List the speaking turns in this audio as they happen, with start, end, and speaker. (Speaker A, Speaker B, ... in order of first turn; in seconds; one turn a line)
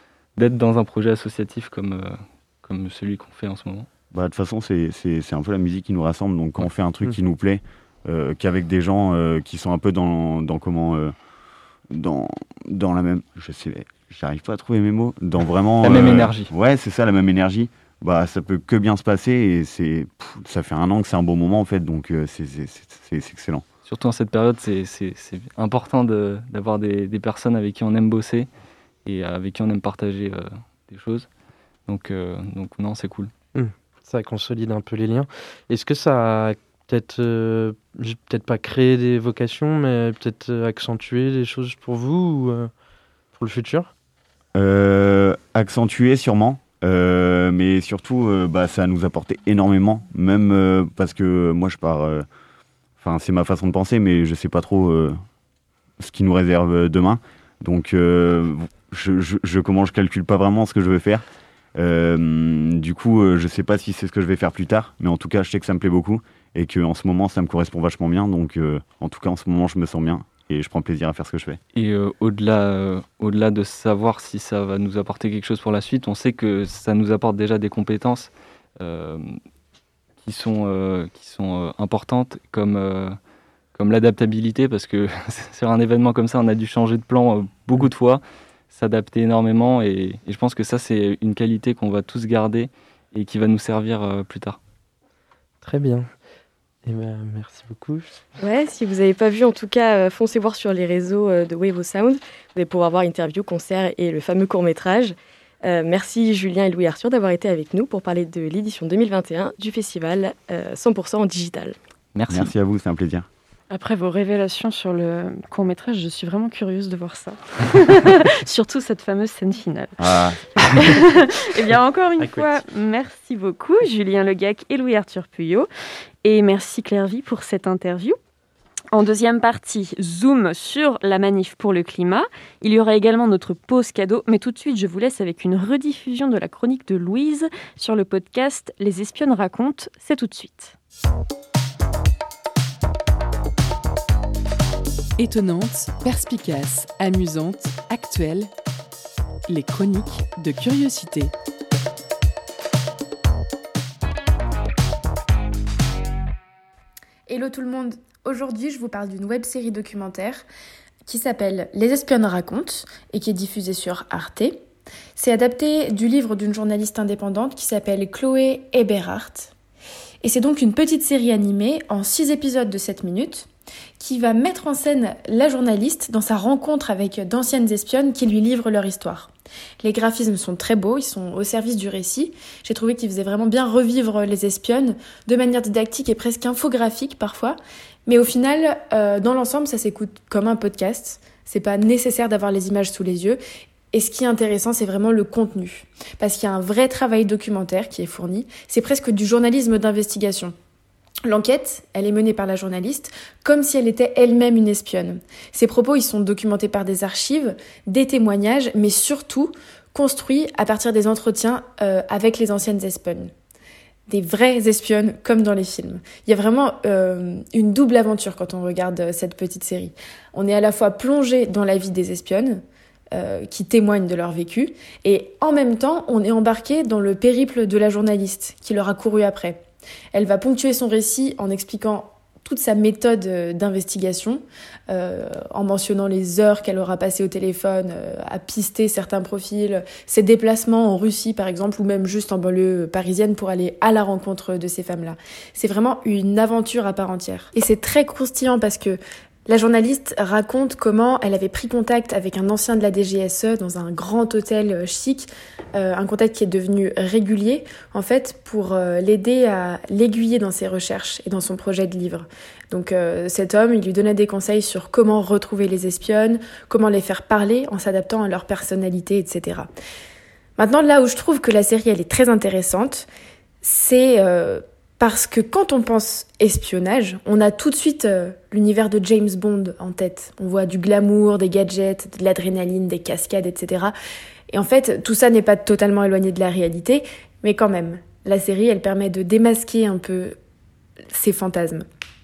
Speaker A: 0.4-3.9
Speaker B: 4.1-11.1
Speaker B: 11.9-23.6
Speaker A: 15.8-16.5
Speaker A: 23.9-28.5
Speaker A: 29.0-31.3
Speaker A: 31.9-33.3
Speaker C: 33.5-42.7
Speaker C: 43.3-43.9
Speaker B: 44.5-52.2
Speaker B: 53.0-55.2
Speaker B: 56.0-61.2
Speaker B: 61.7-71.6
Speaker A: 71.7-79.3
Speaker A: 80.2-83.2
Speaker A: 83.7-94.6
Speaker C: 95.6-96.1
Speaker C: 96.8-98.1
Speaker D: 98.4-111.8
Speaker A: 112.1-112.5
Speaker B: 112.3-113.3
Speaker E: 113.7-120.0
Speaker B: 120.0-120.4
Speaker E: 120.8-125.7
Speaker E: 126.2-128.2
Speaker E: 128.9-140.7
Speaker F: 145.2-148.5
Speaker F: 149.5-151.3
Speaker G: 157.3-160.4
Speaker G: 161.1-164.6
Speaker G: 165.1-169.5
Speaker G: 170.2-193.4
Speaker G: 193.9-200.5
Speaker G: 201.2-213.3
Speaker G: 214.1-222.6
Speaker G: 223.1-269.7
Speaker G: 270.6-273.1
Speaker G: 273.6-283.9
Speaker G: 284.5-290.4
Speaker G: 291.1-291.8